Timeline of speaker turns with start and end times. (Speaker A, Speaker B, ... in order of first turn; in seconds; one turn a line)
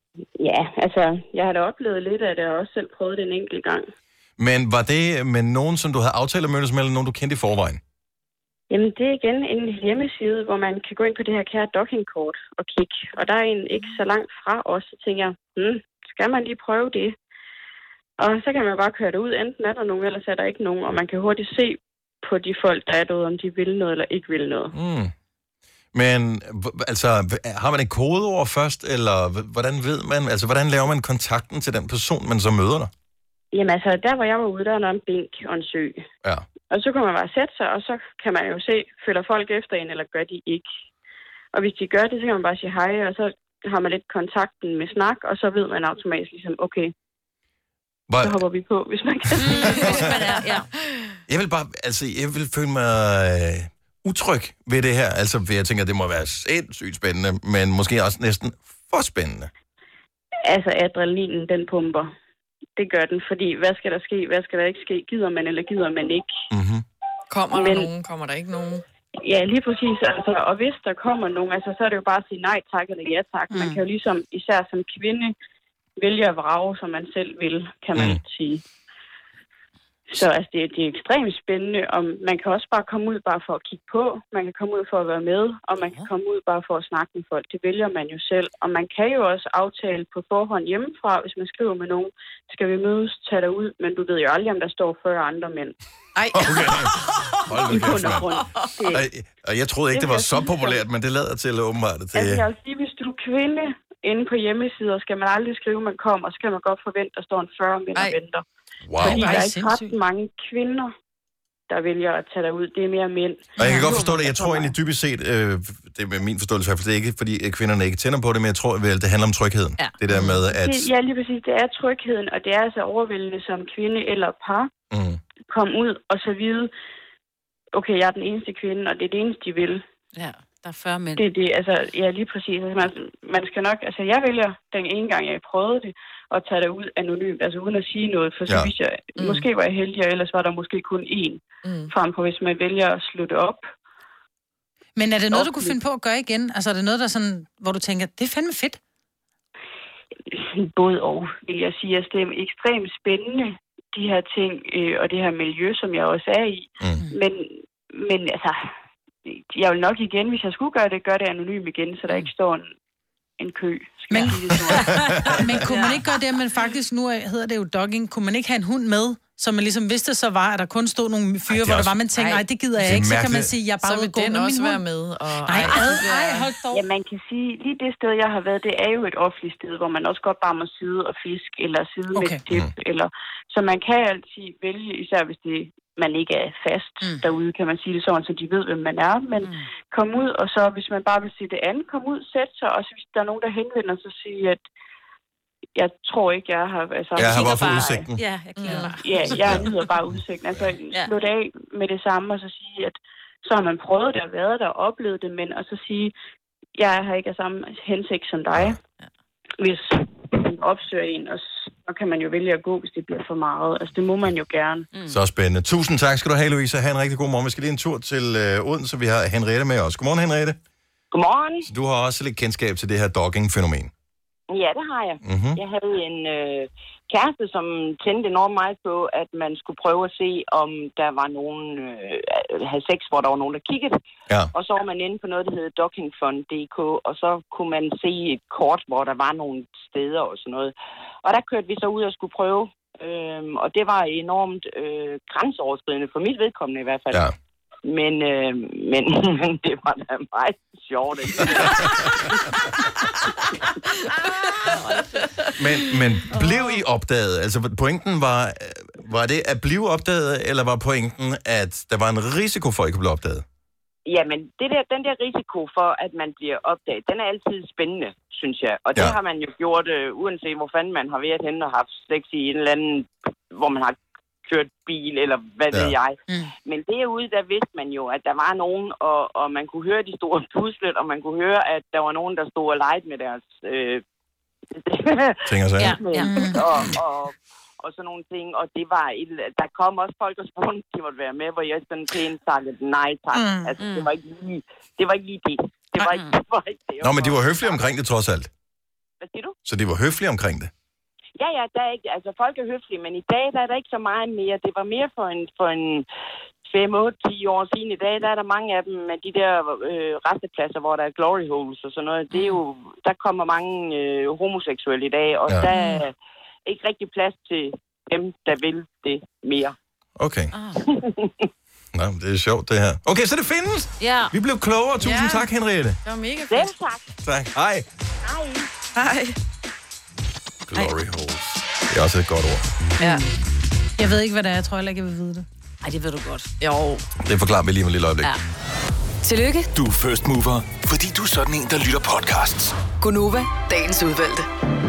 Speaker A: 0.4-3.9
Speaker B: 4.4-7.8
Speaker A: 8.7-17.1
Speaker A: 18.2-24.7
Speaker B: 24.7-25.1
Speaker B: 25.9-32.9
Speaker A: 33.5-36.0
Speaker A: 36.7-40.7
Speaker A: 41.5-46.9
Speaker B: 48.1-48.4
Speaker A: 48.2-50.1
Speaker B: 49.4-50.1
Speaker C: 49.4-50.7
Speaker B: 51.3-59.5
Speaker A: 60.5-62.1
Speaker A: 62.8-66.3
Speaker B: 66.5-66.8
Speaker D: 67.3-68.8
Speaker A: 67.5-67.9
Speaker A: 69.2-75.3
Speaker E: 73.5-73.8
Speaker A: 76.0-78.6
Speaker B: 78.0-78.2
Speaker A: 80.1-95.7
Speaker D: 96.2-98.9
Speaker B: 96.3-96.9
Speaker B: 97.5-98.3
Speaker A: 97.7-99.1
Speaker B: 98.9-102.5
Speaker A: 99.9-100.8
Speaker A: 102.1-108.4
Speaker B: 108.8-109.4
Speaker A: 109.0-110.9
Speaker E: 109.0-110.0
Speaker A: 111.7-114.7
Speaker B: 113.6-120.9
Speaker C: 113.7-114.1
Speaker A: 120.5-124.7
Speaker B: 124.9-125.2
Speaker A: 125.4-126.7
Speaker A: 127.7-129.8
Speaker C: 130.2-131.2
Speaker A: 131.2-143.7
Speaker B: 138.5-138.7
Speaker D: 139.2-139.4
Speaker D: 141.6-141.9
Speaker E: 144.9-148.8
Speaker A: 145.3-145.8
Speaker A: 150.3-158.7
Speaker A: 159.3-162.7
Speaker A: 163.4-165.9
Speaker E: 164.1-174.8
Speaker B: 164.4-165.7
Speaker B: 171.5-171.9
Speaker B: 172.8-173.5
Speaker D: 173.8-176.5
Speaker E: 175.4-176.8
Speaker A: 176.7-194.6
Speaker E: 182.1-182.4
Speaker E: 187.0-187.3
Speaker A: 195.8-198.1
Speaker B: 197.2-198.2
Speaker C: 197.2-199.6
Speaker D: 198.6-199.0
Speaker A: 199.0-206.1
Speaker B: 199.3-199.7
Speaker A: 206.8-208.8
Speaker A: 209.6-214.9
Speaker C: 214.9-215.2
Speaker B: 215.1-220.6
Speaker F: 221.1-221.7
Speaker B: 221.6-223.9
Speaker F: 224.5-233.9
Speaker B: 225.2-225.6
Speaker F: 234.6-240.7
Speaker F: 241.2-247.1
Speaker F: 247.9-251.9
Speaker B: 255.6-263.4
Speaker F: 264.1-284.0
Speaker B: 275.7-275.9
Speaker F: 284.8-285.4
Speaker B: 285.4-286.0
Speaker C: 285.8-286.9
Speaker F: 286.0-297.8
Speaker E: 286.2-286.7
Speaker E: 293.3-293.7
Speaker C: 293.8-294.1
Speaker C: 295.9-296.4
Speaker B: 297.0-298.5
Speaker F: 299.2-299.5
Speaker B: 299.6-300.7
Speaker F: 301.4-306.1
Speaker F: 306.7-316.1
Speaker C: 312.3-312.6
Speaker C: 315.7-316.1
Speaker F: 316.6-319.7
Speaker B: 320.2-320.5
Speaker C: 320.5-320.8
Speaker B: 321.9-326.0
Speaker C: 324.0-324.3
Speaker D: 325.0-325.5
Speaker D: 326.1-326.8
Speaker F: 326.5-327.1
Speaker B: 327.2-327.9
Speaker F: 328.3-328.6
Speaker D: 328.9-329.4
Speaker B: 330.7-332.6
Speaker D: 333.0-333.2
Speaker C: 333.0-333.3
Speaker E: 334.0-335.4
Speaker C: 335.8-336.5
Speaker D: 336.6-337.1
Speaker B: 337.2-338.3
Speaker G: 339.2-339.7
Speaker H: 339.7-342.7
Speaker G: 343.0-344.4